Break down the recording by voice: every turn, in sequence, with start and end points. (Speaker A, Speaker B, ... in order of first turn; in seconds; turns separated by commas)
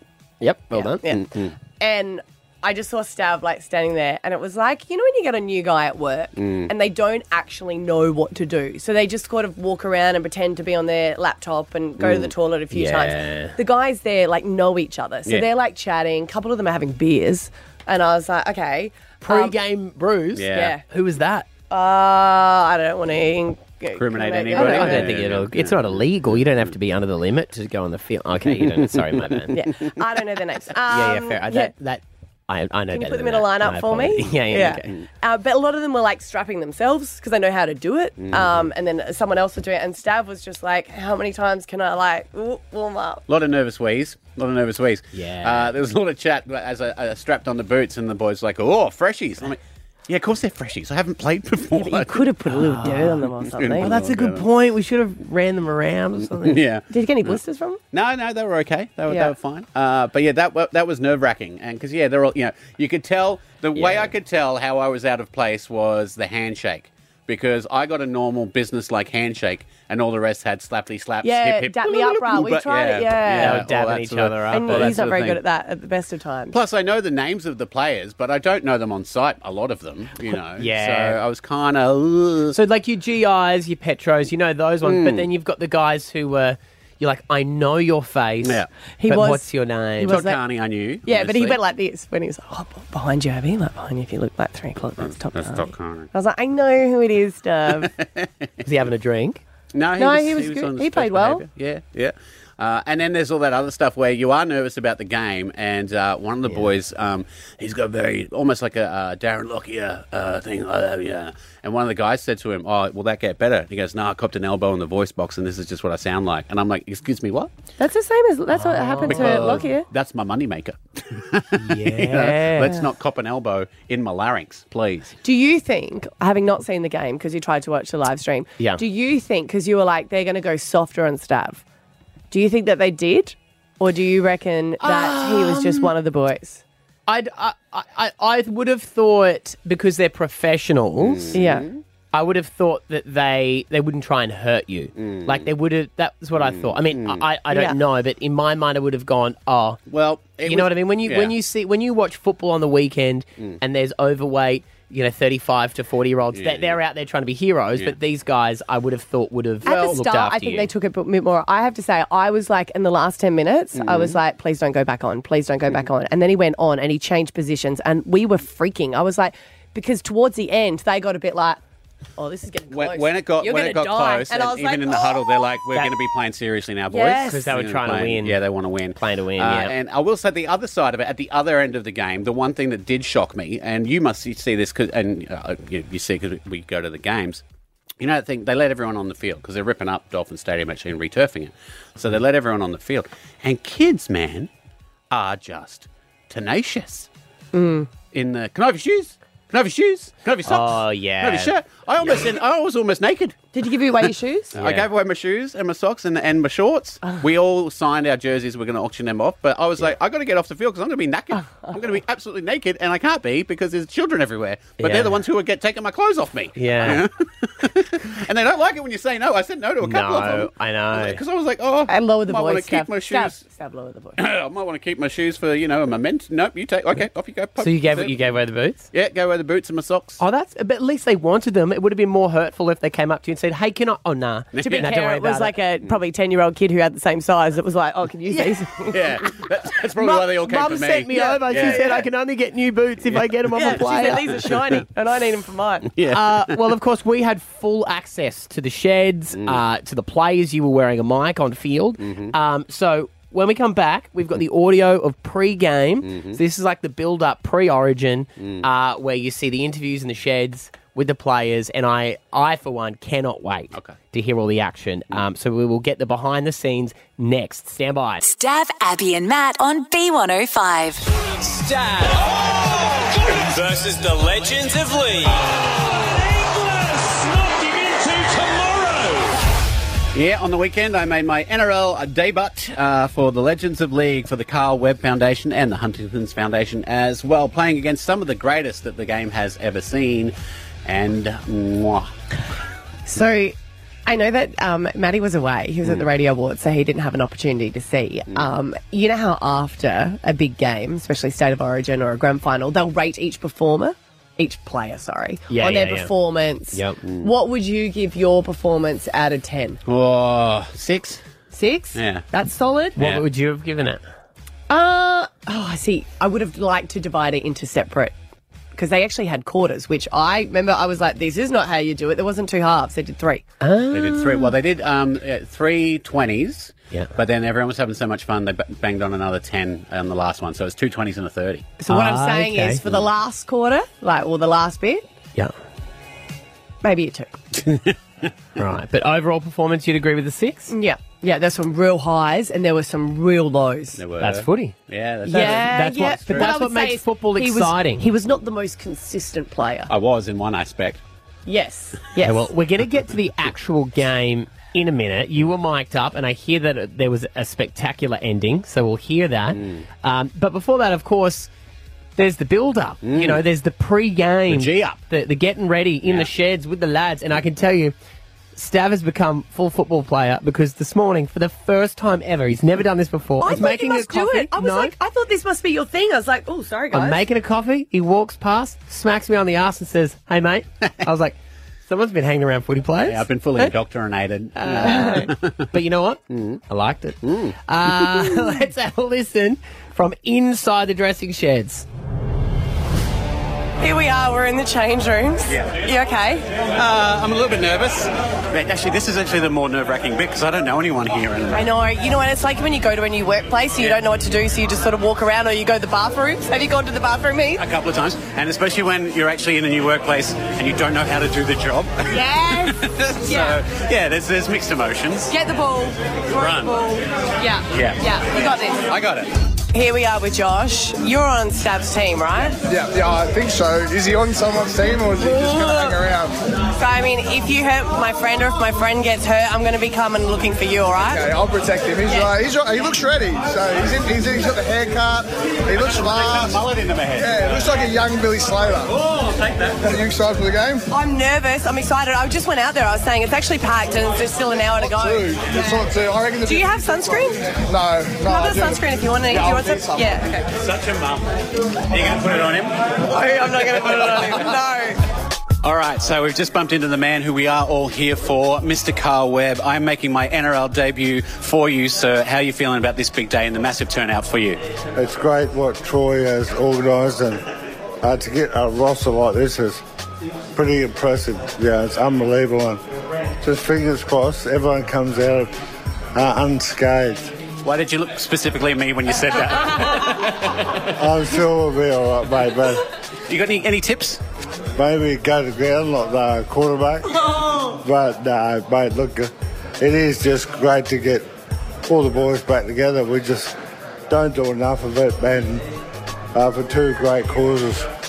Speaker A: 0.4-1.1, Speaker B: 0.7-19.6, Speaker C: 1.0-1.5, Speaker C: 6.4-6.7, Speaker C: 12.0-12.3, Speaker A: 12.7-13.6, Speaker A: 19.2-21.5, Speaker C: 20.3-20.8, Speaker B: 20.5-20.8, Speaker B: 21.7-25.1, Speaker C: 23.9-26.7, Speaker A: 24.5-29.6, Speaker C: 28.4-29.5, Speaker B: 29.5-31.7, Speaker A: 30.9-34.9, Speaker B: 32.9-43.2, Speaker C: 38.2-38.7, Speaker C: 43.3-52.3, Speaker A: 45.1-45.7, Speaker B: 51.7-53.9, Speaker A: 52.5-53.2, Speaker C: 53.5-54.5, Speaker A: 53.8-56.6, Speaker C: 56.1-57.4, Speaker B: 56.9-57.8, Speaker C: 57.9-75.4, Speaker B: 59.1-59.3, Speaker A: 63.7-64.1, Speaker B: 71.2-73.7, Speaker A: 73.3-75.0, Speaker B: 74.5-76.5, Speaker C: 76.5-82.6, Speaker A: 80.6-81.2, Speaker A: 82.5-90.2, Speaker C: 84.8-85.3, Speaker C: 88.4-88.7, Speaker B: 89.0-89.5, Speaker B: 90.0-90.4, Speaker C: 90.0-91.6, Speaker B: 91.0-97.9, Speaker C: 95.0-96.1, Speaker C: 97.7-98.7, Speaker A: 98.6-99.4, Speaker C: 99.7-117.5, Speaker B: 100.0-101.4, Speaker B: 117.8-119.9, Speaker A: 118.5-119.7, Speaker C: 119.1-125.1, Speaker A: 121.6-122.8, Speaker B: 125.2-131.6, Speaker B: 132.3-136.6, Speaker A: 134.8-135.9, Speaker A: 137.1-141.4, Speaker C: 141.0-141.8, Speaker B: 141.3-141.7, Speaker A: 142.1-149.8, Speaker C: 144.9-145.5, Speaker C: 146.4-147.2, Speaker B: 147.5-147.8, Speaker C: 149.9-151.3, Speaker A: 150.4-160.7, Speaker C: 156.3-156.8, Speaker B: 159.6-171.6, Speaker C: 163.7-164.2, Speaker B: 172.2-175.5, Speaker C: 172.7-187.4, Speaker B: 176.9-177.3, Speaker A: 177.0-178.4, Speaker A: 178.9-179.7, Speaker C: 188.0-194.5, Speaker C: 195.1-197.1, Speaker B: 197.5-197.9, Speaker C: 198.1-203.4, Speaker A: 200.5-201.5, Speaker B: 203.5-204.5, Speaker C: 204.0-223.4, Speaker A: 204.6-204.9, Speaker A: 214.8-215.2, Speaker A: 216.6-217.1, Speaker A: 219.8-221.2, Speaker B: 221.9-224.2, Speaker C: 224.2-228.2, Speaker A: 227.6-228.9, Speaker C: 228.9-230.2, Speaker A: 230.2-235.5, Speaker C: 234.5-234.9, Speaker B: 234.6-239.0, Speaker C: 238.9-241.9, Speaker A: 240.0-244.2, Speaker B: 241.1-242.0, Speaker C: 243.0-244.8, Speaker B: 243.5-245.9, Speaker C: 245.9-246.7, Speaker A: 246.1-268.2, Speaker C: 249.3-249.6, Speaker C: 252.0-252.3, Speaker C: 256.0-256.4, Speaker C: 258.4-258.7, Speaker D: 268.2-271.0, Speaker E: 271.3-279.4, Speaker C: 280.1-292.1, Speaker B: 293.1-309.8, Speaker A: 305.5-306.1, Speaker A: 306.7-307.0, Speaker C: 307.0-307.3, Speaker C: 309.9-311.2, Speaker B: 311.5-313.0, Speaker C: 311.9-312.2, Speaker A: 312.9-314.0, Speaker C: 313.0-313.2, Speaker B: 314.7-318.1, Speaker B: 318.7-323.4, Speaker A: 323.6-324.5, Speaker C: 323.9-331.8, Speaker B: 331.8-335.0, Speaker A: 331.9-332.8, Speaker B: 336.8-337.3, Speaker C: 337.6-337.9, Speaker A: 338.6-340.7, Speaker B: 340.7-344.0, Speaker C: 343.9-346.6, Speaker A: 344.2-344.8, Speaker A: 345.3-348.1, Speaker B: 345.3-349.9, Speaker C: 349.9-351.0, Speaker B: 351.4-352.5, Speaker A: 352.2-361.5, Speaker C: 359.5-359.8, Speaker A: 362.2-367.9, Speaker C: 363.0-363.4, Speaker C: 364.5-365.0, Speaker A: 368.5-374.9, Speaker B: 373.4-377.2, Speaker A: 376.9-383.2, Speaker C: 383.0-385.7, Speaker B: 384.6-385.3, Speaker A: 385.7-391.9, Speaker C: 386.3-386.6, Speaker C: 387.2-388.2, Speaker B: 393.8-396.4, Speaker C: 395.5-395.7, Speaker C: 396.7-401.7, Speaker B: 401.5-407.6, Speaker C: 407.6-415.3, Speaker B: 412.1-413.6, Speaker B: 415.3-418.8, Speaker C: 416.3-417.0, Speaker C: 417.7-419.3, Speaker B: 419.7-422.6, Speaker F: 422.7-426.4, Speaker B: 425.2-426.0, Speaker B: 426.7-431.2, Speaker F: 431.1-436.6, Speaker C: 435.7-437.6, Speaker F: 437.2-438.9, Speaker C: 439.1-439.8, Speaker F: 439.8-440.8, Speaker B: 440.9-445.8, Speaker F: 444.8-450.2, Speaker B: 446.4-447.5, Speaker B: 448.2-450.4, Speaker C: 450.6-452.9, Speaker B: 453.1-455.0, Speaker C: 455.6-464.6, Speaker G: 464.9-467.4, Speaker G: 468.0-469.8, Speaker G: 470.5-472.8, Speaker G: 473.4-475.5, Speaker G: 476.1-477.3, Speaker C: 477.6-480.7, Speaker G: 481.0-482.8, Speaker C: 483.3-484.2, Speaker G: 484.8-491.3, Speaker G: 491.9-493.5, Speaker G: 494.1-495.6, Speaker G: 496.3-497.9